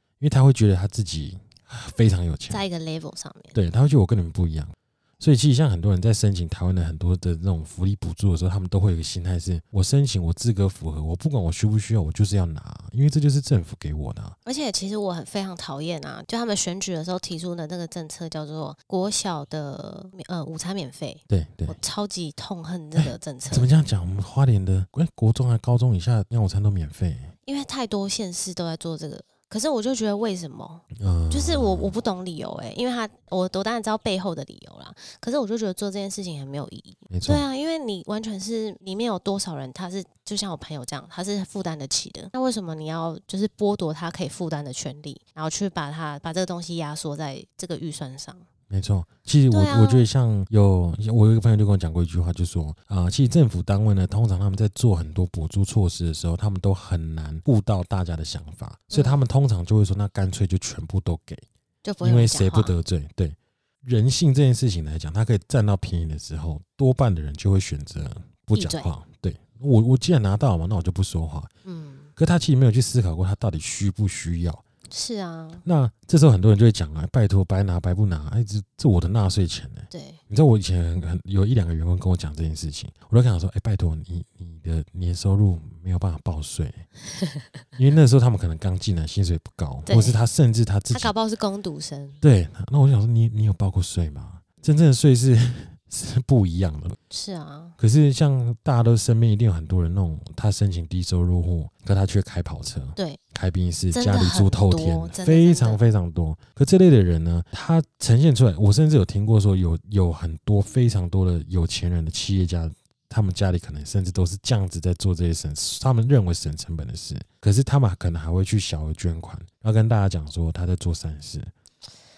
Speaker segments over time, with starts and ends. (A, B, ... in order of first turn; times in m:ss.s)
0:00.2-0:02.6 A
0:02.5-0:03.6 B
0:03.5-0:14.4 A
0:14.4-0:23.7 B
0:21.3-0:21.8 A
0:23.0-0:27.3 A
0:27.4-0:48.4 B
0:31.0-0:32.0 A
0:37.1-0:37.4 A
0:48.7-1:01.4 A
0:49.5-0:50.1 B
0:58.9-0:59.2 B
1:01.8-1:02.7 B
1:02.0-1:11.5 A
1:08.5-1:08.9 B
1:11.6-1:12.1 B
1:12.2-1:14.6 A
1:14.9-1:15.6 B
1:15.6-1:26.8 A
1:19.9-1:20.2 B
1:27.1-1:27.5 B
1:27.8-1:31.1 A
1:29.8-1:30.2 B
1:30.9-1:32.2 B
1:32.2-1:37.0 A
1:37.1-1:37.8 B
1:37.8-2:01.5 A
1:43.9-1:45.8 B